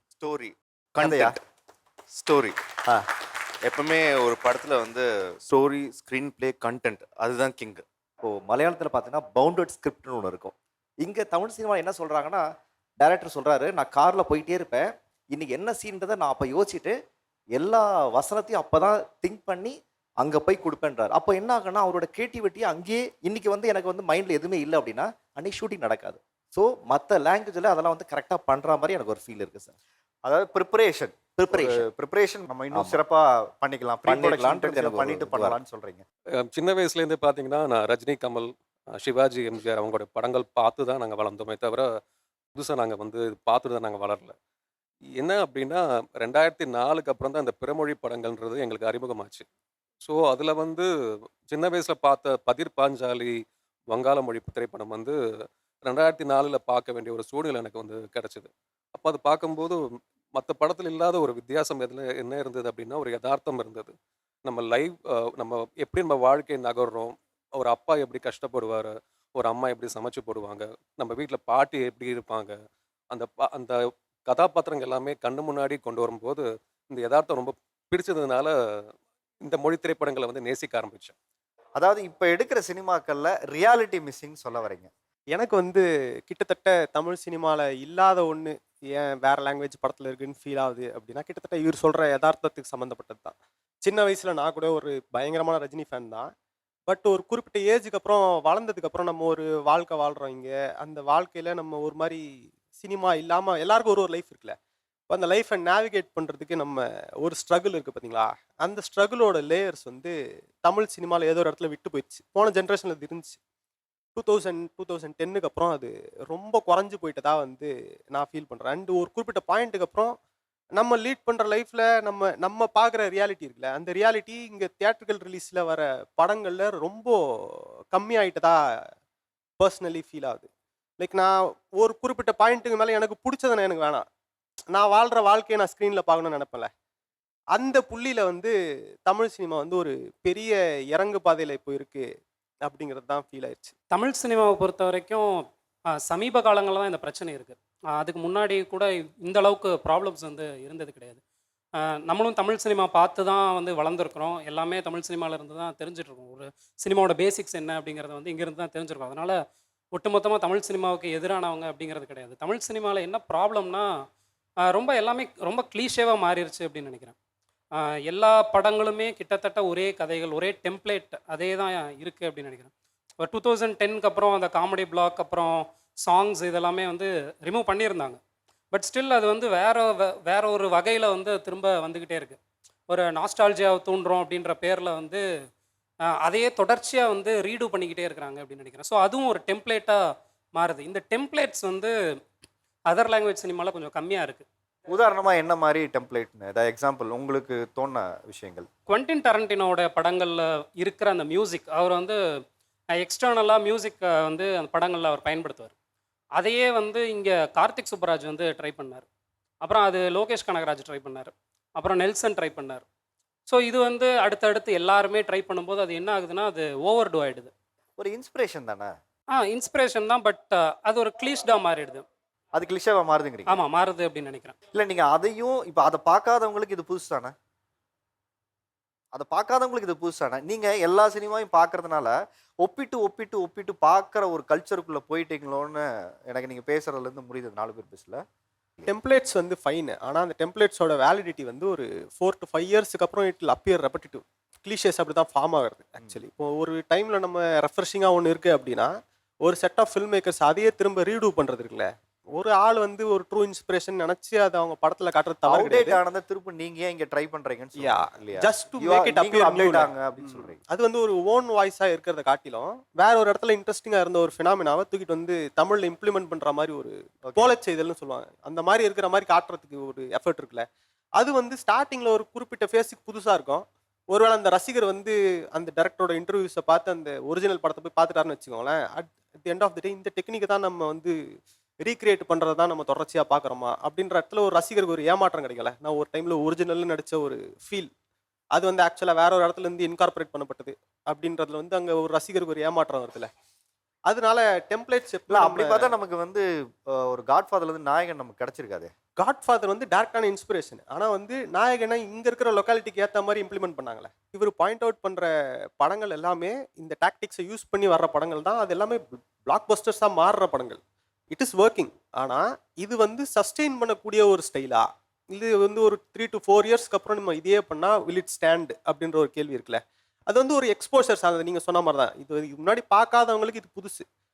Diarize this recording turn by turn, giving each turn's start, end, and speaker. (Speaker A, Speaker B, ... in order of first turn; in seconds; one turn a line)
Speaker A: 0.2-1.4
Speaker B: 1.0-1.4
Speaker A: 2.1-2.6
Speaker A: 3.6-7.8
Speaker C: 8.2-12.5
Speaker C: 13.0-16.9
Speaker C: 17.5-29.8
Speaker B: 30.2-36.0
Speaker C: 31.4-31.9
Speaker C: 32.7-33.0
Speaker C: 34.0-35.6
Speaker D: 36.5-41.9
Speaker D: 42.5-44.3
Speaker D: 45.2-49.5
Speaker D: 50.0-50.9
Speaker D: 51.5-53.4
Speaker D: 53.9-55.1
Speaker D: 55.9-59.8
Speaker D: 60.3-63.9
Speaker D: 64.4-72.5
Speaker D: 73.1-78.5
Speaker D: 79.4-81.1
Speaker B: 81.8-84.9
Speaker E: 85.3-96.3
Speaker E: 96.9-102.2
Speaker E: 102.8-104.5
Speaker E: 105.1-113.4
Speaker E: 114.2-120.1
Speaker E: 120.8-128.6
Speaker E: 129.6-130.5
Speaker E: 131.0-134.0
Speaker E: 134.7-136.7
Speaker E: 137.5-138.5
Speaker E: 139.1-142.1
Speaker E: 142.6-143.8
Speaker F: 143.9-145.4
Speaker F: 146.0-151.2
Speaker F: 152.0-159.4
Speaker F: 159.9-163.9
Speaker F: 164.7-167.2
Speaker F: 167.8-178.2
Speaker F: 178.7-185.2
Speaker F: 186.2-190.0
Speaker F: 190.5-191.9
Speaker F: 192.9-194.4
Speaker B: 194.9-198.7
Speaker F: 198.9-202.2
Speaker F: 202.9-205.7
Speaker F: 206.4-209.0
Speaker F: 209.6-212.8
Speaker F: 213.4-217.5
Speaker B: 218.0-218.9
Speaker F: 219.3-222.0
Speaker B: 222.5-223.6
Speaker F: 223.4-224.5
Speaker B: 224.7-227.3
Speaker B: 229.1-238.2
Speaker E: 238.8-248.9
Speaker E: 249.4-256.0
Speaker B: 255.5-260.6
Speaker E: 257.8-270.6
Speaker B: 267.2-267.5
Speaker E: 271.2-281.2
Speaker E: 281.8-287.9
Speaker E: 288.5-293.3
Speaker E: 294.1-295.9
Speaker B: 295.3-298.9
Speaker E: 299.2-310.8
Speaker E: 311.3-324.0